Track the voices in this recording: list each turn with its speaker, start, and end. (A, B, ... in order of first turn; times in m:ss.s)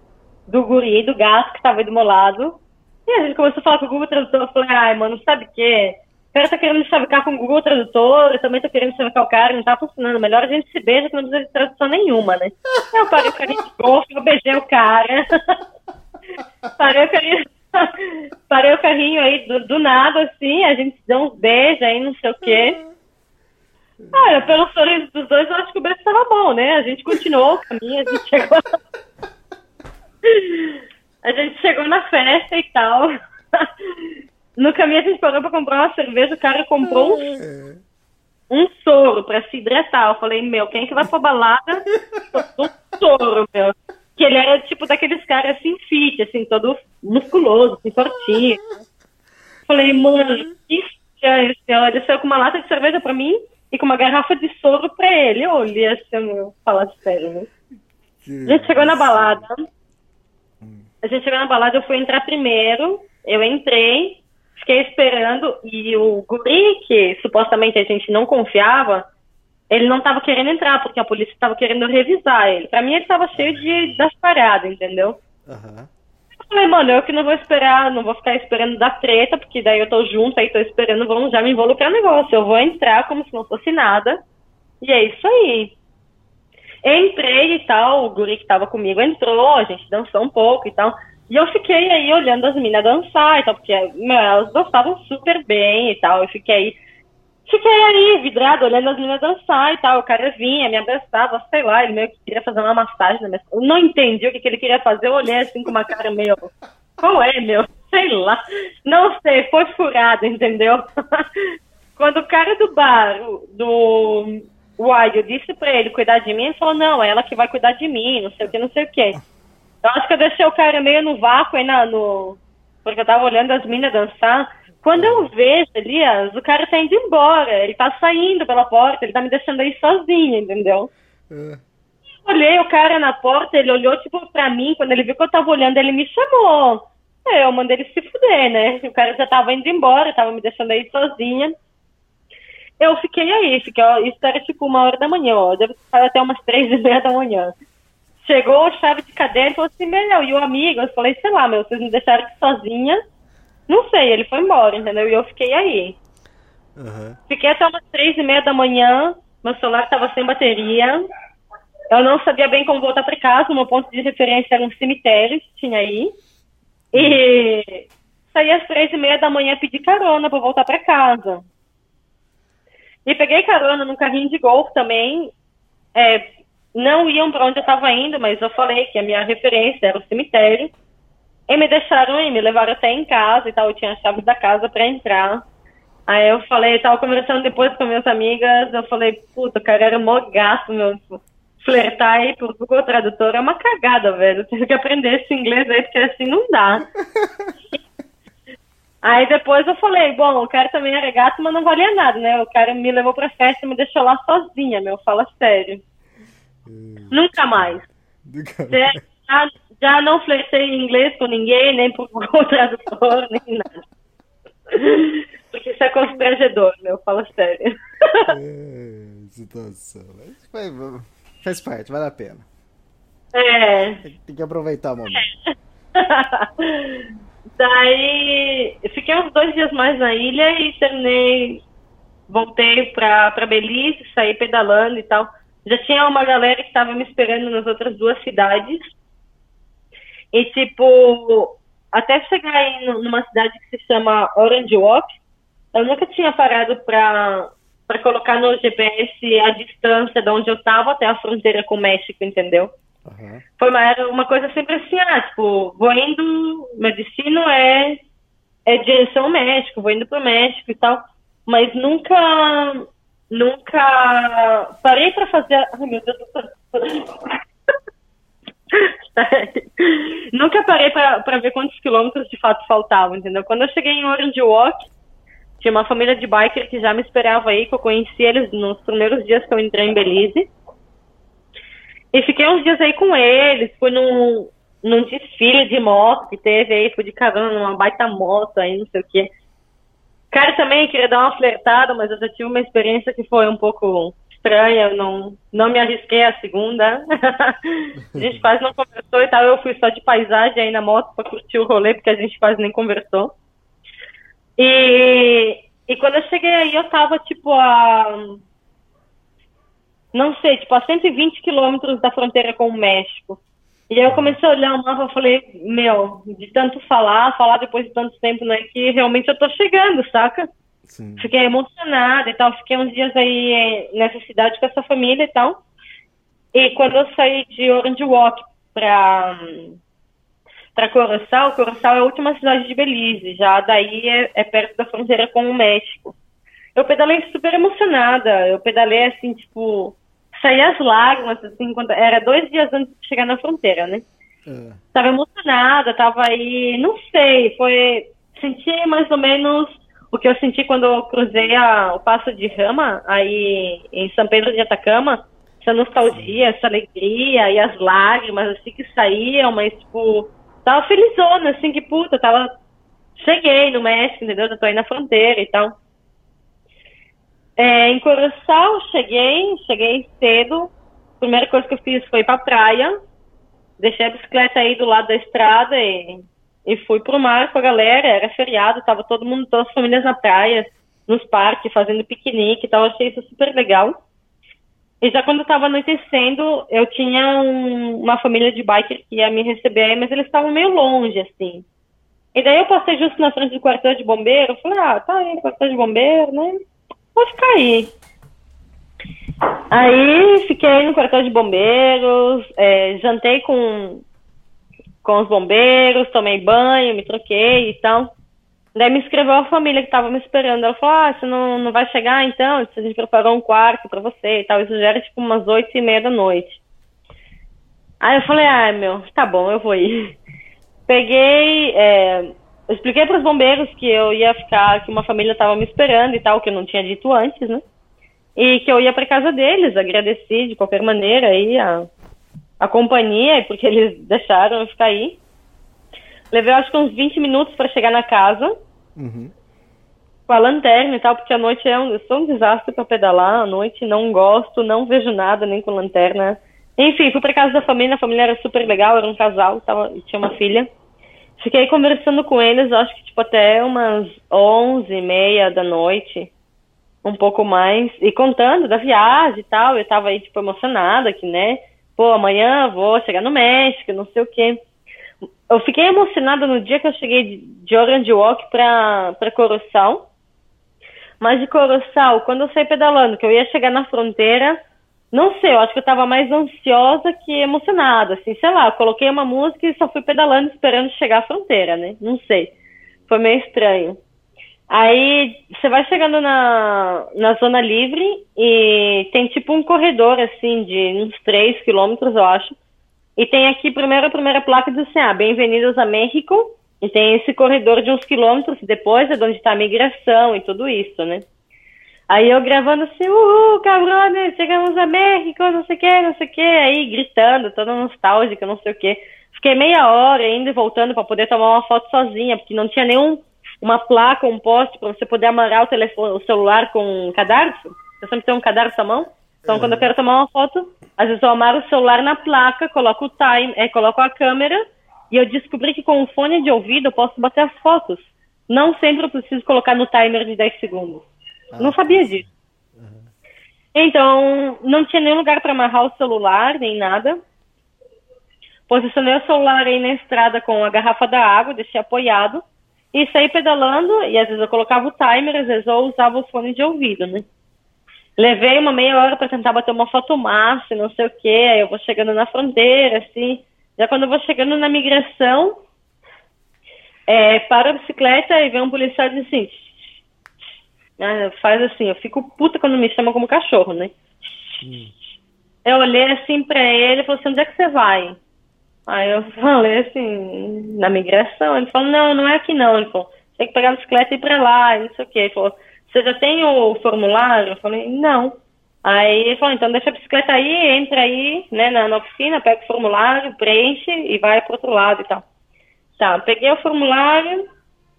0:00.5-0:15.5 A
0:16.8-0:22.8 A
0:24.0-0:24.6 B
0:24.1-0:28.7 A
0:30.2-0:34.0 A
0:34.6-0:37.3 A
0:36.8-0:37.8 B
0:38.5-0:48.6 A
0:49.7-0:57.5 A
0:58.2-0:59.4 B
0:58.4-0:59.6 A
1:00.6-1:00.9 B
1:01.0-1:09.1 A
1:09.7-1:15.2 A
1:15.4-1:15.9 B
1:16.4-1:24.2 A
1:24.8-1:25.7 A
1:26.8-1:36.8 A
1:37.5-1:51.4 A
1:52.0-1:59.2 A
1:59.8-2:10.9 A
2:04.9-2:05.3 B
2:11.3-2:11.6 B
2:12.2-2:21.6 A
2:22.8-2:27.5 A
2:28.2-2:33.0 A
2:33.7-2:36.0 A
2:36.8-2:37.2 B
2:37.3-2:41.0 A
2:41.9-2:46.1 A
2:46.9-2:47.2 B
2:46.9-2:51.4 A
2:53.0-2:55.3 A
2:55.9-3:00.7 A
3:01.5-3:05.4 A
3:06.1-3:16.9 A
3:17.0-3:17.5 B
3:19.0-3:25.8 A
3:26.6-3:29.0 B
3:27.1-3:27.8 A
3:28.7-3:33.8 A
3:34.7-3:38.3 A
3:38.3-3:42.5 B
3:43.3-3:44.0 A
3:44.0-3:45.2 B
3:45.1-3:51.6 A
3:52.3-3:59.0 A
4:00.3-4:05.2 A
4:05.7-4:12.7 A
4:13.0-4:13.4 B
4:13.6-4:18.0 A
4:18.6-4:27.3 A
4:28.7-4:34.9 A
4:35.6-4:40.5 A
4:42.1-4:49.3 A
4:50.3-5:03.3 A
5:04.6-5:08.4 A
5:10.1-5:20.5 A
5:14.1-5:14.4 B
5:20.9-5:21.3 B
5:21.2-5:25.6 A
5:26.5-5:29.8 A
5:30.7-5:36.1 A
5:36.7-5:44.0 A
5:44.4-5:44.8 B
5:44.9-6:02.5 A
5:56.1-5:56.4 B
6:03.2-6:05.8 A
6:07.6-6:12.9 A
6:13.8-6:24.0 A
6:25.0-6:31.6 A
6:32.3-6:36.6 A
6:37.1-6:37.9 A
6:39.7-6:44.0 A
6:45.0-6:48.1 A
6:48.7-6:56.6 A
6:58.0-7:00.2 A
7:00.9-7:07.6 A
7:08.4-7:11.9 A
7:12.6-7:15.2 A
7:16.3-7:18.6 A
7:19.0-7:19.3 B
7:20.3-7:30.7 A
7:31.4-7:36.3 A
7:37.0-7:44.6 A
7:45.5-7:50.1 A
7:51.2-7:54.6 A
7:55.1-8:02.5 A
8:03.1-8:04.0 A
8:04.7-8:12.6 A
8:13.2-8:21.2 A
8:22.1-8:51.0 A
8:39.4-8:39.9 B
8:51.5-8:53.1 B
8:51.6-8:52.2 A
8:53.7-8:57.2 A
8:58.7-9:07.2 A
9:08.2-9:15.6 A
9:17.1-9:20.0 A
9:21.0-9:24.7 A
9:24.6-9:24.9 B
9:25.6-9:28.2 A
9:28.9-9:45.2 A
9:46.0-9:47.4 A